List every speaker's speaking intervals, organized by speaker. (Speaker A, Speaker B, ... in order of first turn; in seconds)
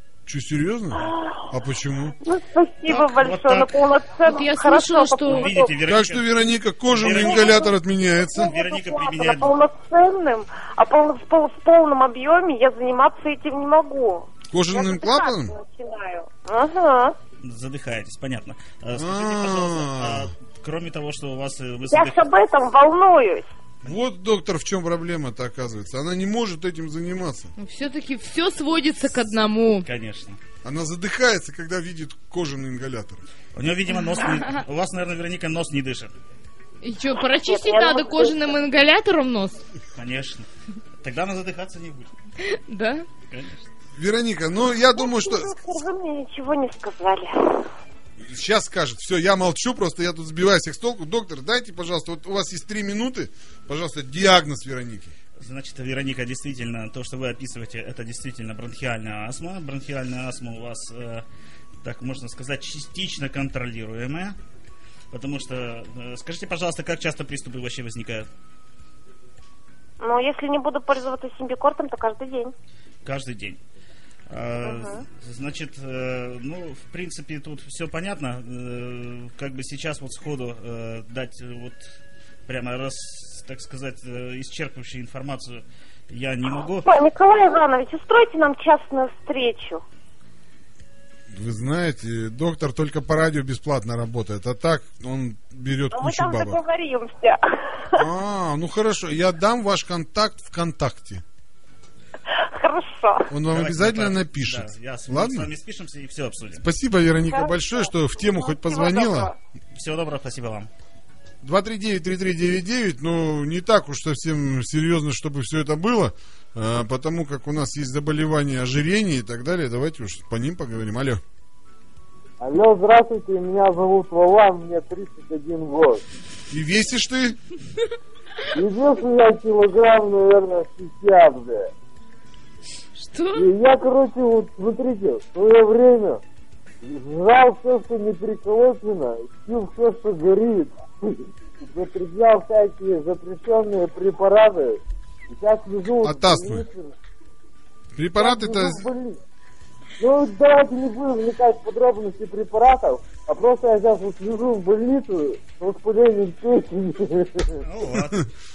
Speaker A: 0.3-2.2, 5.9-8.5, 14.5-15.5, 18.9-20.3, 23.8-27.5, 30.6-33.2, 44.0-45.6, 48.2-55.1, 91.3-96.6, 98.0-101.2, 103.3-105.5, 106.6-109.3, 111.4-121.2, 126.5-127.4, 146.0-146.7, 148.0-148.9, 158.0-158.3
Speaker B: 1.1-1.3, 2.2-5.7, 7.1-7.7, 8.3-17.2, 21.9-23.5, 37.4-38.5, 44.9-47.7, 70.0-72.5, 74.6-75.0, 86.8-89.8, 95.9-98.0, 102.4-103.3, 107.3-109.3
Speaker C: 2.9-3.7, 5.3-7.7, 8.3-9.6, 17.4-22.2, 29.8-30.4, 33.5-36.1, 40.0-40.5, 41.0-42.1, 43.3-43.7, 55.4-61.2, 61.8-64.4, 65.1-68.3, 73.0-73.6, 74.3-82.0, 82.5-86.9, 103.5-106.7, 109.7-110.7, 157.6-158.2
Speaker D: 4.2-5.5, 27.6-29.9, 34.1-34.5, 36.8-39.6, 42.4-43.1, 133.0-133.5
Speaker E: 122.4-126.0, 128.5-131.7, 133.3-136.2, 136.8-146.9, 148.2-149.2, 150.0-157.6